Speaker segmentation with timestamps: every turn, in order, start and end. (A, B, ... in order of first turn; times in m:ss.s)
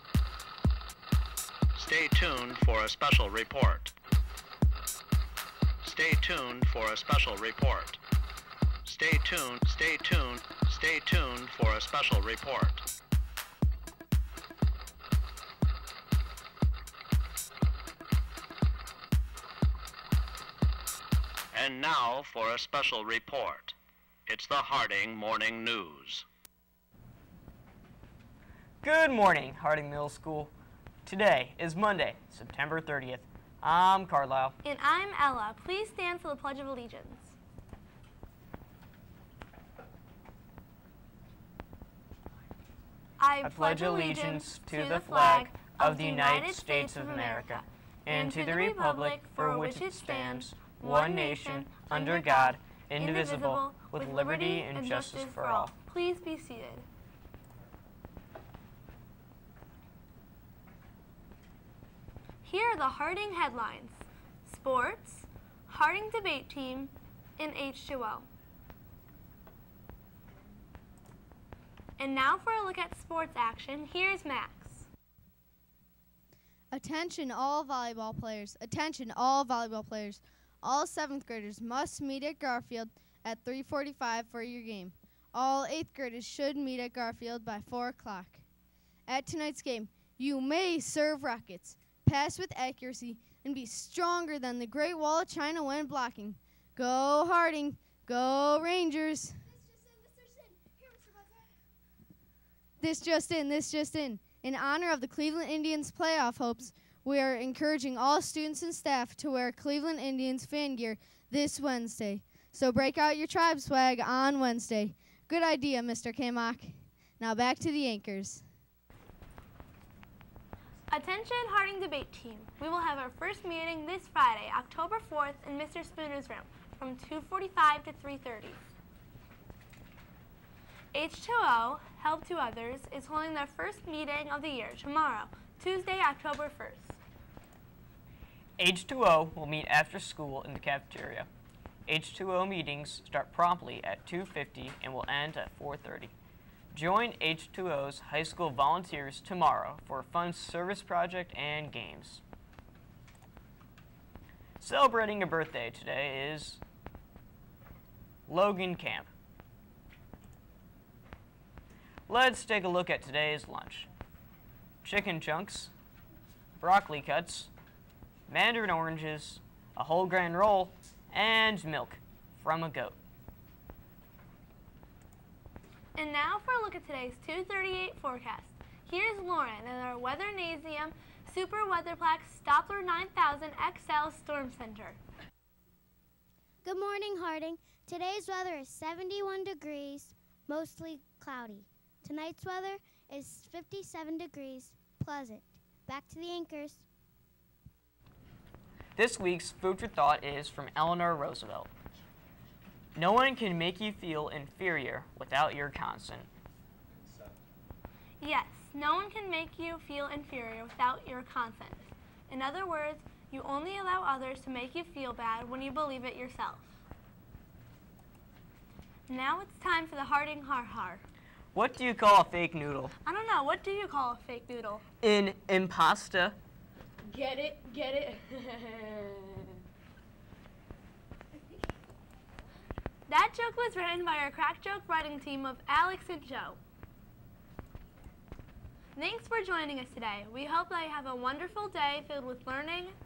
0:01.8-0:03.9 A
0:05.8-0:08.0 A
0:08.8-0:12.8 A
0:21.5-0:23.8 A
0:24.3-0:26.3 A
0:28.8-0:30.5 B
0:31.1-0:34.6 B
0:34.6-0:37.4 C
0:43.2-0:56.9 C
0:43.4-0:55.8 B
1:02.4-1:08.3 C
1:12.0-1:14.9 C
1:16.7-1:28.4 D
1:29.1-1:39.8 D
1:42.8-1:58.4 D
2:00.9-2:08.6 C
2:10.9-2:17.0 C
2:18.6-2:21.3 B
2:21.9-2:26.1 B
2:26.7-2:32.2 B
2:34.6-2:36.6 B
2:38.3-2:39.1 B
2:42.1-2:43.9 B
2:44.8-2:45.7 B
2:46.6-2:47.5 B
2:48.3-2:53.0 B
2:56.0-3:05.0 C
3:06.6-3:16.9 E
3:19.0-3:21.7 B
3:23.0-3:26.3 B
3:28.2-3:36.7 C
3:39.1-3:41.0 C
3:41.5-3:42.9 B
3:43.0-3:44.8 C
3:45.0-3:46.4 B
3:47.1-3:49.0 C
3:53.1-3:56.6 C
3:59.0-4:03.0 C